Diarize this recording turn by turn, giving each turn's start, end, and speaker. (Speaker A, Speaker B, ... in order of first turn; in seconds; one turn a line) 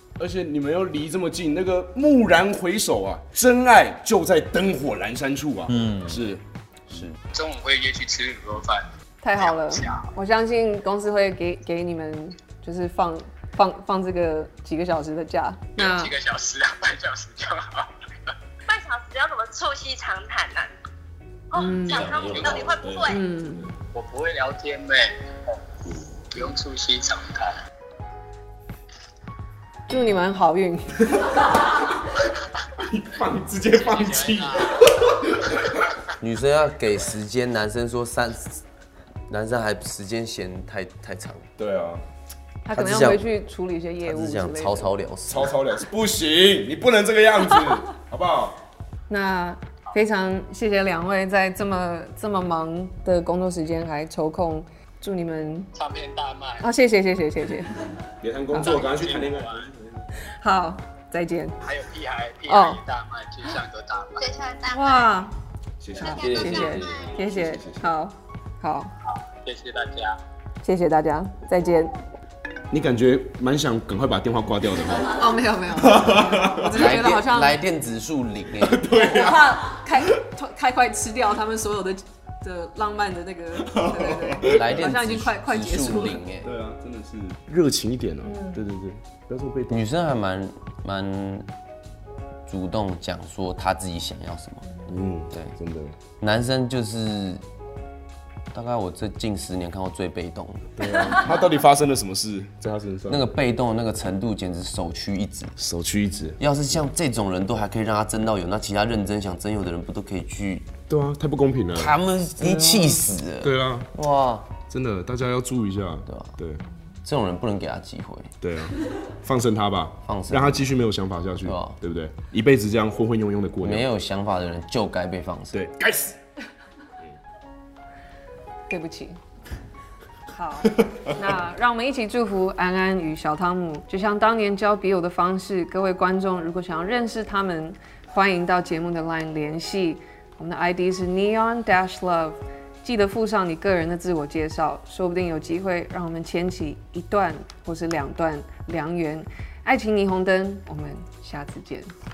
Speaker A: 0.2-6.4
Speaker B: 5.7-6.2
Speaker B: 6.9-7.2
Speaker C: 7.3-10.1
Speaker D: 9.2-16.1
Speaker C: 15.8-18.3
Speaker E: 18.7-20.7
Speaker E: 21.5-23.2
Speaker D: 21.5-22.1
Speaker B: 21.6-22.8
Speaker C: 22.3-22.7
Speaker A: 22.7-23.7
Speaker D: 23.1-23.7
Speaker C: 23.9-25.3
Speaker C: 26.3-27.6
Speaker D: 29.9-31.2
Speaker A: 32.8-35.8
Speaker C: 33.7-34.9
Speaker B: 36.2-38.6
Speaker B: 39.3-41.5
Speaker A: 41.6-42.0
Speaker D: 42.6-45.0
Speaker B: 42.7-43.3
Speaker B: 44.0-45.5
Speaker A: 45.3-48.6
Speaker D: 49.1-55.7
Speaker C: 55.7-56.7
Speaker D: 56.6-57.9
Speaker A: 58.2-59.7
Speaker D: 58.5-58.8
Speaker C: 58.6-59.7
Speaker D: 60.2-61.6
Speaker C: 61.6-64.3
Speaker D: 62.5-62.8
Speaker E: 64.2-65.2
Speaker D: 64.7-65.3
Speaker A: 65.8-67.9
Speaker E: 66.0-67.2
Speaker D: 66.0-68.9
Speaker B: 66.1-67.1
Speaker C: 69.0-70.2
Speaker D: 70.6-72.0
Speaker A: 72.7-75.2
Speaker D: 75.0-77.6
Speaker A: 75.7-76.9
Speaker B: 76.7-78.8
Speaker A: 78.5-79.9
Speaker D: 78.9-86.2
Speaker A: 83.6-84.8
Speaker B: 84.4-86.5
Speaker A: 86.4-89.8
Speaker D: 88.3-88.6
Speaker B: 89.7-91.5
Speaker B: 92.5-94.8
Speaker A: 94.8-96.0
Speaker B: 95.3-95.5
Speaker B: 96.2-97.4
Speaker B: 98.5-101.1
Speaker A: 100.7-103.2
Speaker B: 103.1-105.5
Speaker A: 105.6-106.4
Speaker B: 106.4-110.7
Speaker A: 110.9-112.0
Speaker B: 111.7-114.5
Speaker A: 113.4-113.9
Speaker A: 114.7-116.6
Speaker B: 116.1-116.4
Speaker B: 117.0-118.3
Speaker A: 118.4-123.9
Speaker B: 120.0-120.7
Speaker B: 121.4-121.8
Speaker B: 123.6-125.6
Speaker A: 125.5-126.2
Speaker D: 128.7-129.2
Speaker D: 130.3-151.9